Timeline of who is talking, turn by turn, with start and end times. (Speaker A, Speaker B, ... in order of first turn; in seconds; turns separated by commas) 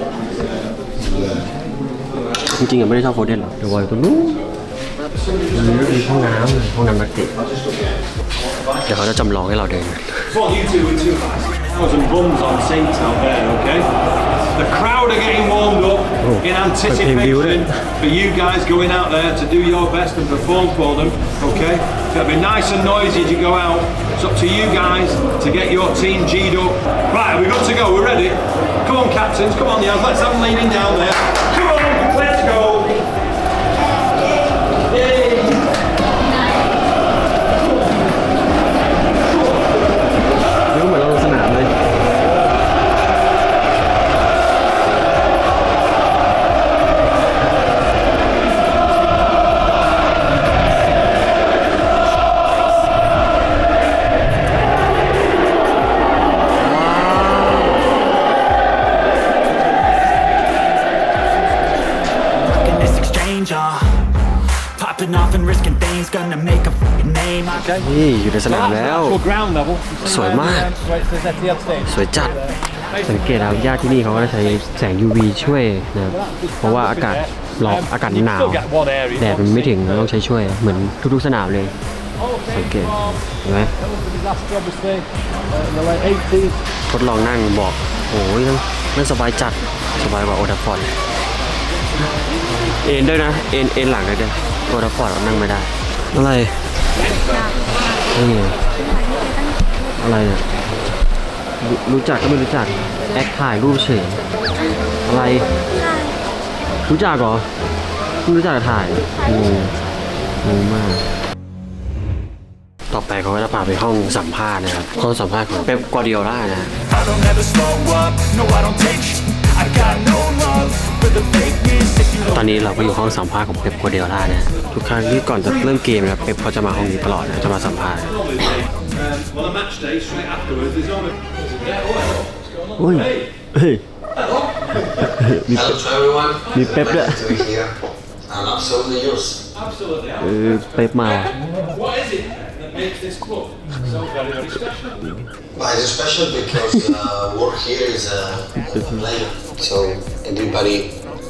Speaker A: 1.0-1.4, Speaker A: 2.4-4.4, Speaker A: 5.5-7.3, Speaker A: 8.8-10.4, Speaker B: 10.6-13.8, Speaker B: 14.6-16.1, Speaker A: 16.2-17.9, Speaker B: 18.1-33.0, Speaker A: 40.7-41.7, Speaker A: 56.6-57.8, Speaker C: 62.2-64.0, Speaker C: 64.6-67.8, Speaker A: 67.8-69.2, Speaker A: 70.0-70.8, Speaker A: 71.7-81.7, Speaker A: 82.4-83.7, Speaker B: 84.2-85.0, Speaker B: 85.6-86.5, Speaker A: 86.9-90.9, Speaker A: 92.6-96.6, Speaker B: 97.2-98.0, Speaker A: 98.1-98.6, Speaker B: 98.8-99.8, Speaker A: 100.0-100.4, Speaker A: 101.6-104.2, Speaker A: 105.0-105.5, Speaker A: 106.8-107.5, Speaker A: 108.2-109.8, Speaker A: 110.4-111.0, Speaker A: 112.9-116.7, Speaker C: 116.9-122.4, Speaker A: 122.3-128.1, Speaker B: 130.0-130.9, Speaker B: 131.6-132.1, Speaker A: 132.8-133.8, Speaker A: 134.9-135.8, Speaker D: 135.4-137.7, Speaker A: 136.4-137.5, Speaker D: 138.2-139.4, Speaker A: 140.2-141.4, Speaker B: 141.7-143.8, Speaker D: 145.5-150.9, Speaker A: 146.6-146.9, Speaker A: 148.7-149.2